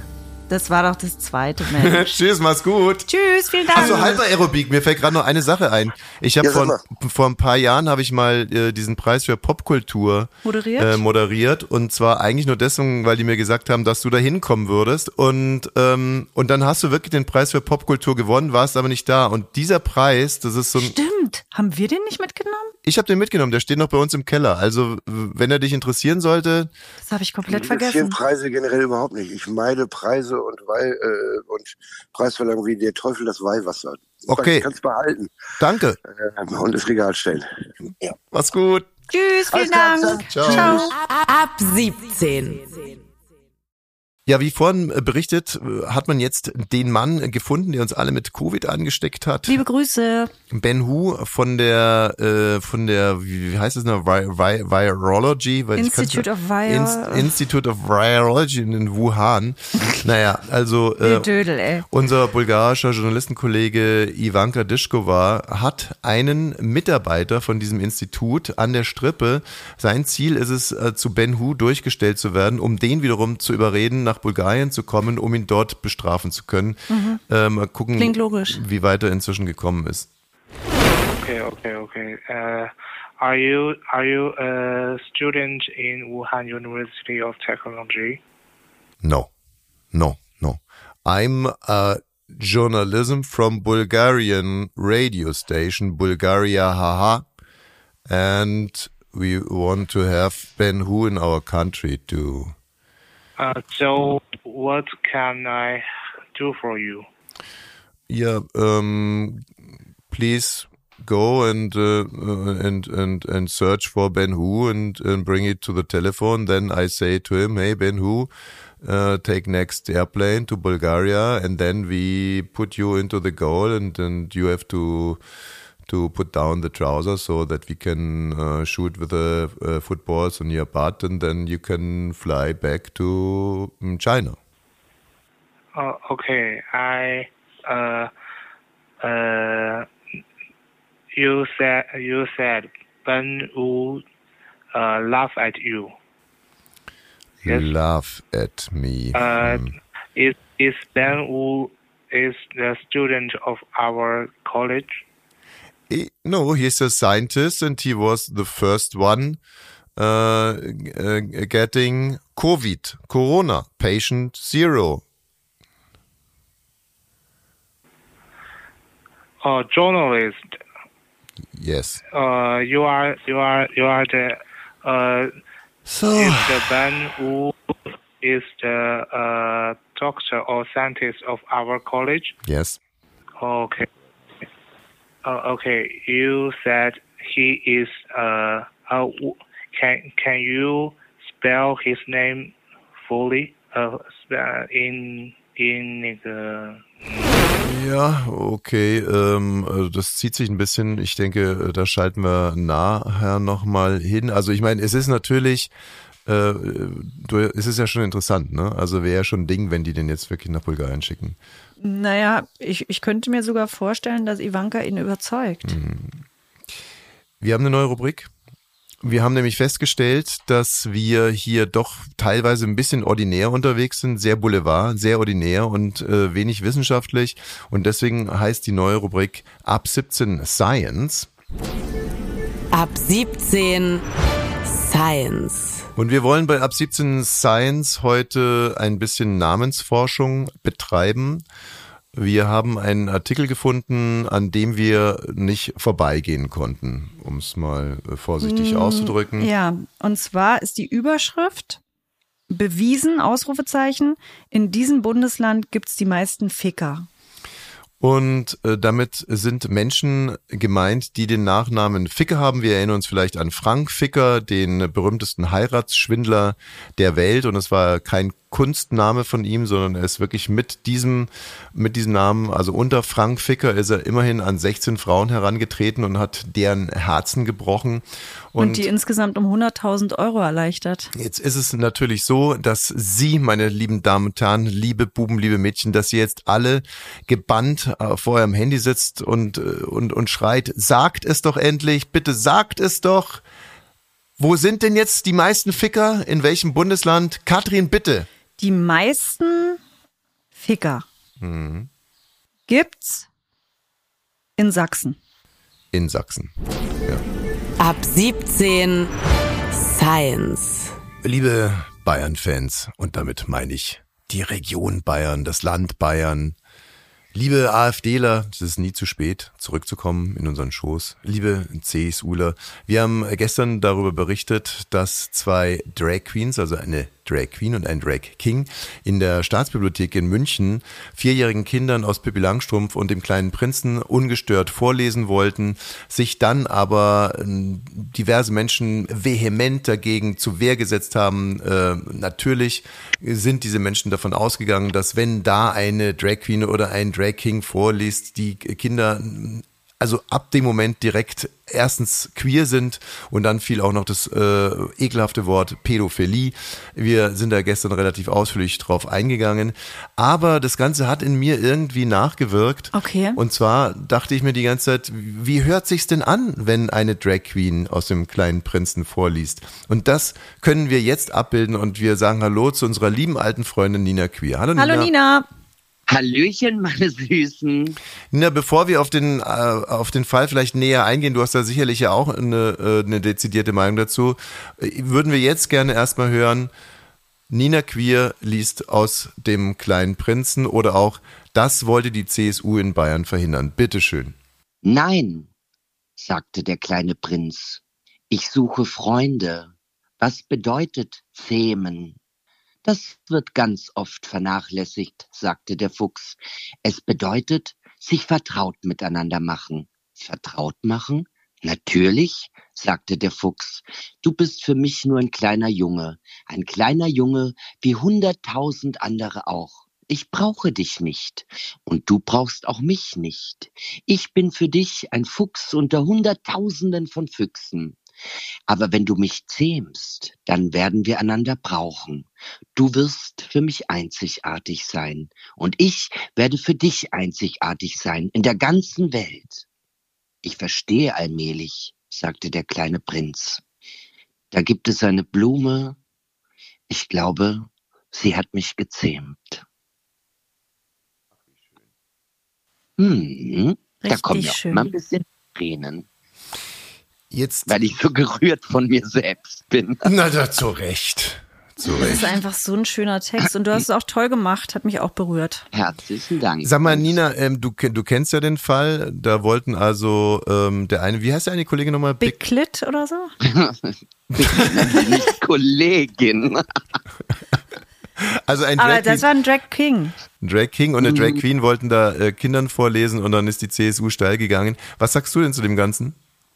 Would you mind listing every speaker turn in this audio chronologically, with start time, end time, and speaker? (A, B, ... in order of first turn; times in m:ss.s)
0:00.5-0:02.2 A
0:01.7-0:03.1 B
0:03.1-0:04.2 A
0:03.7-0:20.9 B
0:06.4-0:06.8 C
0:10.4-0:11.0 A
0:20.8-0:22.7 A
0:22.8-0:26.7 B
0:27.0-0:28.2 A
0:27.5-0:35.4 C
0:34.2-0:34.7 B
0:35.6-0:36.0 B
0:36.0-0:37.5 C
0:38.3-0:38.9 B
0:39.1-0:40.9 A
0:39.5-0:40.9 C
0:40.1-0:40.8 B
0:41.0-0:43.0 D
0:44.3-0:49.6 B
0:49.5-0:50.3 A
0:50.5-1:01.3 B
0:55.8-0:57.3 A
1:01.0-1:01.8 A
1:01.9-1:20.1 B
1:16.9-1:17.2 A
1:18.0-1:18.6 A
1:20.8-1:28.2 E
1:29.0-1:29.3 B
1:29.9-1:37.2 B
1:38.1-1:42.5 B
1:43.4-1:47.0 E
1:48.1-1:49.5 B
1:50.1-1:58.3 B
1:58.8-2:05.2 B
2:05.9-2:14.4 B
2:15.7-2:18.1 E
2:19.0-2:19.9 E
2:21.1-2:24.0 E
2:24.7-2:25.9 E
2:27.4-2:29.7 B
2:27.4-2:27.7 E
2:29.1-2:35.0 E
2:35.9-2:39.4 B
2:40.0-2:45.0 B
2:49.4-2:50.6 E
2:51.5-2:52.0 B
2:52.1-2:55.3 E
2:55.9-2:56.6 B
2:56.1-3:02.4 E
3:02.4-3:02.8 B
3:03.4-3:03.9 E
3:05.2-3:17.5 E
3:17.6-3:25.7 B
3:26.2-3:31.4 B
3:31.8-3:35.8 A
3:35.6-3:36.2 B
3:37.4-3:38.3 B
3:39.0-3:51.3 B
3:52.7-3:54.0 D
3:54.6-3:55.8 D
3:56.0-4:01.4 B
4:02.1-4:09.5 B
4:08.4-4:11.8 A
4:12.5-4:17.1 A
4:18.0-4:38.9 B
4:38.6-4:41.1 A
4:41.1-4:53.4 B
4:54.4-4:58.3 B
4:58.6-4:59.8 A
5:00.5-5:01.0 A
5:01.4-5:01.9 B
5:02.7-5:03.3 A
5:04.6-5:05.2 A
5:05.9-5:06.5 B
5:07.8-5:09.1 D
5:09.7-5:10.9 D
5:11.2-5:16.6 B
5:17.3-6:15.1 B
6:02.9-6:03.4 A
6:14.8-6:15.5 A
6:16.1-6:18.0 F
6:18.3-6:26.7 B
6:27.5-6:34.4 B
6:34.8-6:35.5 F
6:36.2-6:42.2 F
6:42.8-7:08.0 F
7:08.7-7:19.6 F
7:20.4-7:23.6 F
7:24.5-7:26.0 F
7:26.9-7:29.6 F
7:33.0-7:36.1 F
7:34.0-7:34.9 A
7:37.3-7:37.8 B
7:37.7-7:40.1 F
7:40.0-7:42.3 B
7:42.0-7:45.6 A
7:45.7-7:47.1 F
7:46.6-7:52.4 B
7:52.2-7:53.3 A
7:53.4-7:56.6 F
7:54.4-7:55.0 B
7:58.2-7:59.3 B
7:58.8-8:00.2 A
8:00.4-8:06.2 B
8:01.0-8:01.4 F